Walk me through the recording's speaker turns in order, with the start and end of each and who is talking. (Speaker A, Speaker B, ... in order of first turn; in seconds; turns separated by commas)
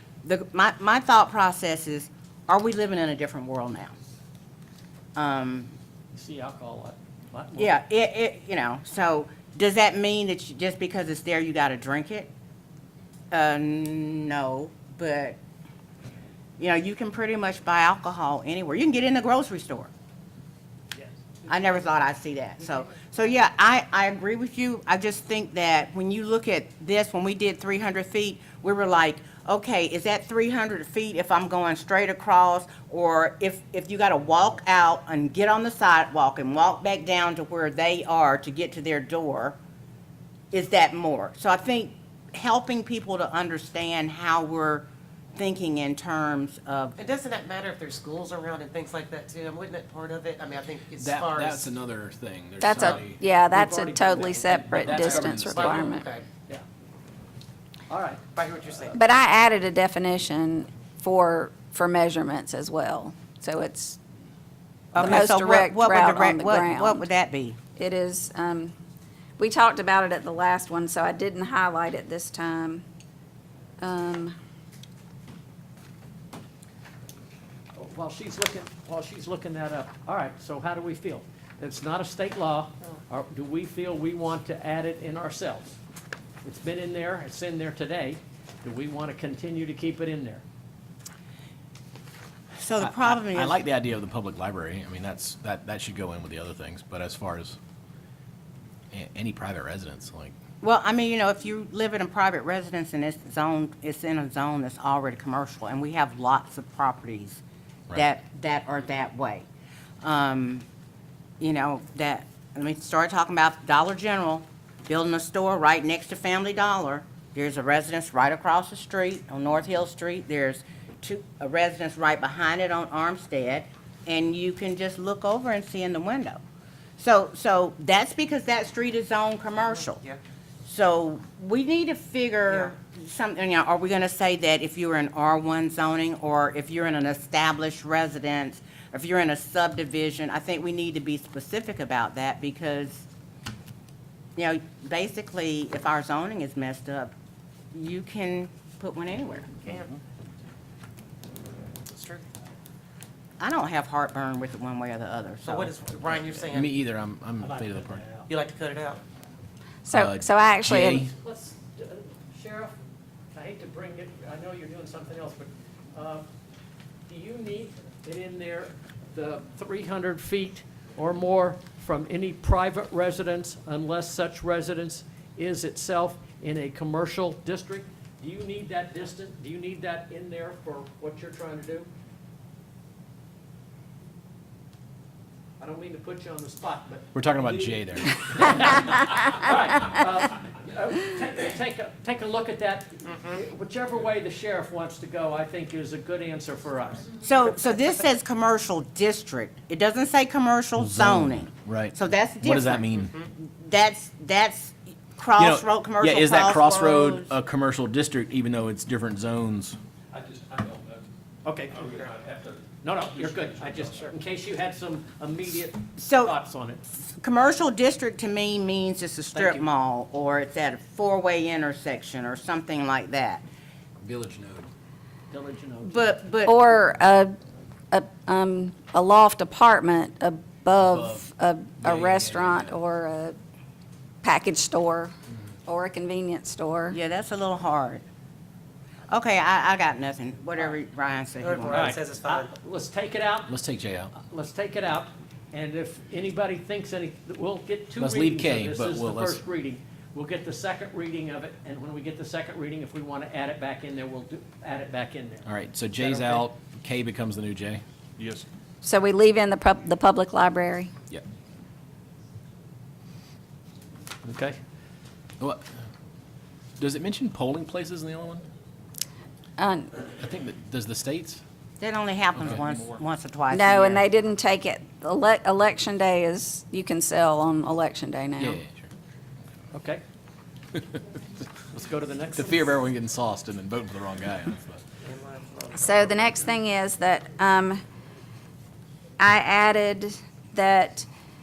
Speaker A: 0.2-3.9, Speaker A: 5.2-5.7, Speaker B: 6.1-7.8, Speaker A: 7.6-12.3, Speaker A: 13.3-15.4, Speaker A: 16.6-19.9, Speaker A: 21.5-39.6, Speaker A: 40.5-47.0, Speaker C: 47.0-51.7, Speaker D: 51.0-53.2, Speaker E: 52.6-56.1, Speaker B: 53.5-55.5, Speaker D: 54.7-56.0, Speaker C: 55.5-56.3, Speaker B: 57.9-58.2, Speaker C: 58.3-59.0, Speaker E: 58.9-64.0, Speaker A: 64.9-67.6, Speaker E: 65.0-67.1, Speaker E: 67.8-68.7, Speaker E: 69.4-72.8, Speaker E: 73.8-74.3, Speaker B: 77.8-85.8, Speaker B: 86.4-90.4, Speaker A: 92.6-93.6, Speaker D: 92.8-97.6, Speaker D: 98.9-100.3, Speaker A: 100.6-107.4, Speaker A: 107.9-109.5, Speaker A: 110.0-110.7, Speaker A: 111.4-126.4, Speaker A: 127.0-130.0, Speaker C: 129.9-130.2, Speaker A: 130.6-143.1, Speaker A: 144.4-147.1, Speaker A: 147.7-149.6, Speaker C: 149.6-150.0, Speaker C: 151.9-152.3, Speaker A: 153.4-156.1, Speaker C: 155.4-156.8, Speaker D: 156.5-158.0, Speaker B: 157.4-158.3, Speaker C: 158.3-159.0, Speaker E: 159.8-161.1, Speaker D: 159.9-161.1, Speaker B: 161.2-162.8, Speaker B: 163.3-166.3, Speaker B: 167.1-181.9, Speaker B: 185.6-197.1, Speaker D: 187.1-188.8, Speaker A: 197.2-207.3, Speaker D: 200.8-203.2, Speaker D: 205.4-209.8, Speaker F: 210.1-211.1, Speaker B: 211.4-211.9, Speaker F: 211.7-212.6, Speaker B: 212.8-216.8, Speaker F: 213.2-213.9, Speaker A: 216.0-216.4, Speaker A: 216.9-223.4, Speaker B: 219.3-219.6, Speaker D: 224.0-224.7, Speaker B: 225.3-226.1, Speaker A: 225.8-226.6, Speaker E: 226.5-227.4, Speaker E: 227.9-233.4, Speaker D: 230.8-231.3, Speaker D: 231.8-232.8, Speaker E: 234.2-235.1, Speaker E: 235.7-237.0, Speaker A: 236.9-238.1, Speaker A: 239.1-241.9, Speaker C: 241.4-242.5, Speaker B: 241.7-243.5, Speaker D: 243.5-244.1, Speaker B: 244.1-256.5, Speaker D: 248.0-249.4, Speaker D: 255.5-257.8, Speaker E: 258.8-260.9, Speaker B: 264.2-264.6, Speaker D: 265.4-265.6, Speaker D: 266.8-268.5, Speaker E: 269.6-269.9, Speaker D: 270.1-271.4, Speaker A: 271.8-274.0, Speaker D: 272.4-272.6, Speaker E: 273.5-278.6, Speaker D: 278.4-278.9, Speaker B: 279.7-280.0, Speaker D: 280.7-281.0, Speaker B: 281.7-282.8, Speaker D: 282.4-284.8, Speaker C: 285.0-286.5, Speaker E: 285.8-287.8, Speaker E: 289.2-291.1